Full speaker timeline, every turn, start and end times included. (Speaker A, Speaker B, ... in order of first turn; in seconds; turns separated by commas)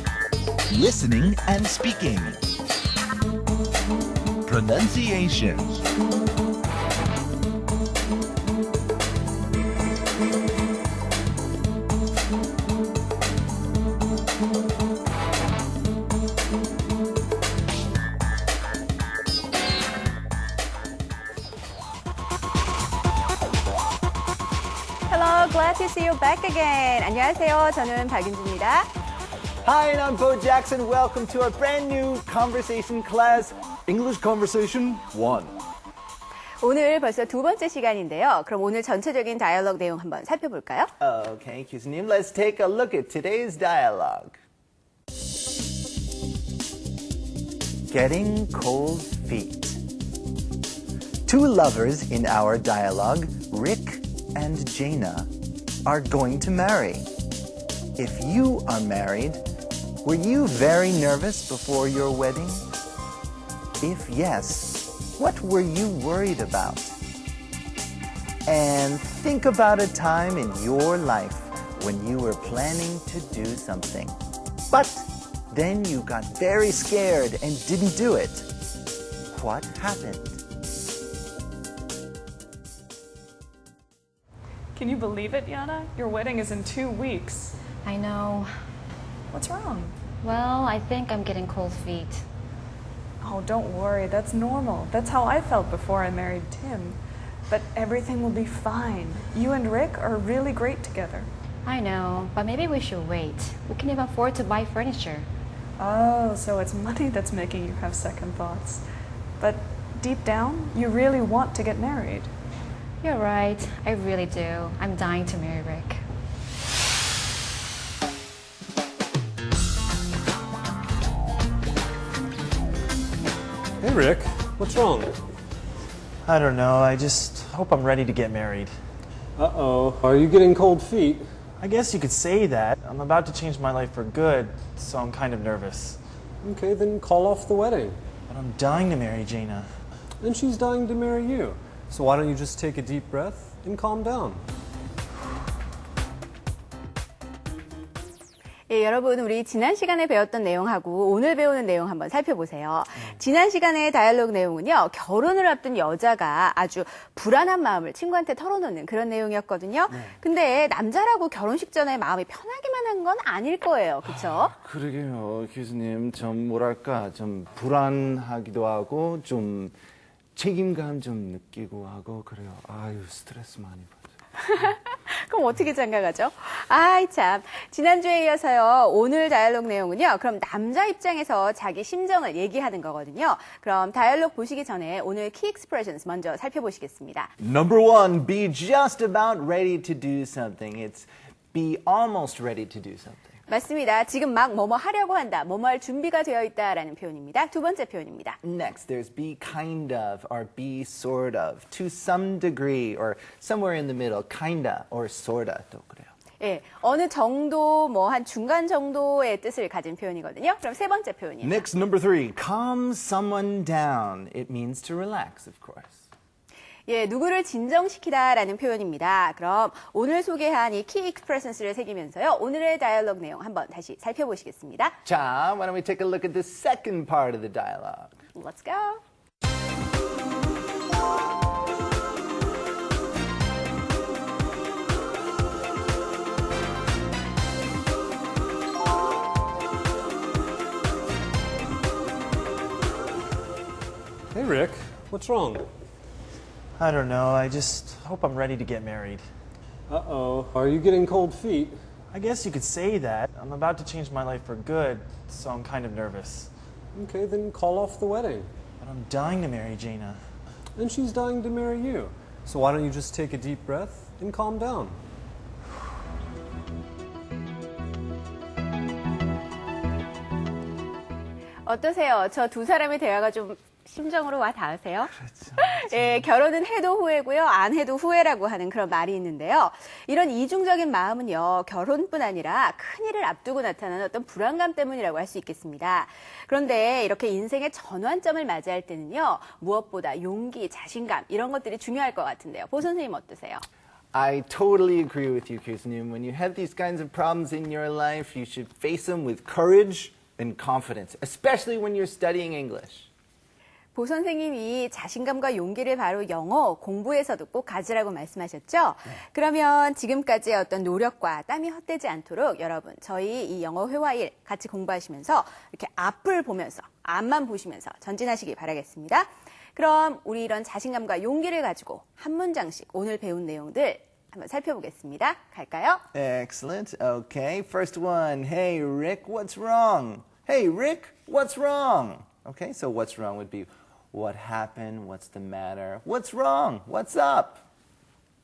Speaker A: 0.7-2.4, Speaker A: 4.5-5.8, Speaker B: 25.1-28.9, Speaker A: 29.6-35.6, Speaker B: 36.6-40.9, Speaker A: 41.0-44.4, Speaker A: 47.9-49.8, Speaker A: 51.3-55.3, Speaker A: 55.9-57.1, Speaker A: 58.0-59.4, Speaker A: 60.0-62.7, Speaker A: 63.8-67.0, Speaker A: 68.5-74.2, Speaker A: 74.7-78.5, Speaker A: 79.3-80.4, Speaker C: 84.7-87.5, Speaker D: 87.8-88.5, Speaker C: 89.3-90.0, Speaker D: 90.2-92.3, Speaker C: 93.2-101.3, Speaker D: 101.7-105.3, Speaker C: 105.8-108.8, Speaker C: 109.4-112.3, Speaker D: 113.0-116.0, Speaker E: 123.8-125.2, Speaker F: 126.3-128.7, Speaker E: 129.4-131.2, Speaker F: 131.6-136.0, Speaker E: 136.4-138.0, Speaker F: 138.3-139.7, Speaker E: 140.2-144.4, Speaker B: 148.7-164.5, Speaker A: 159.9-160.2, Speaker A: 164.0-169.8, Speaker A: 170.3-174.0, Speaker B: 174.4-187.3, Speaker A: 187.4-193.4, Speaker B: 193.5-198.4, Speaker A: 198.4-206.1, Speaker B: 206.4-211.7, Speaker A: 211.4-216.1, Speaker B: 216.9-225.0, Speaker A: 225.1-228.1, Speaker B: 228.3-229.0, Speaker E: 244.3-245.7, Speaker F: 246.8-249.2, Speaker E: 249.9-251.8, Speaker F: 252.1-256.5, Speaker E: 256.9-258.5, Speaker F: 258.8-260.2, Speaker E: 260.8-265.0, Speaker B: 271.6-293.6, Speaker A: 275.2-276.3, Speaker A: 294.1-303.1, Speaker B: 303.9-326.0, Speaker A: 326.1-337.6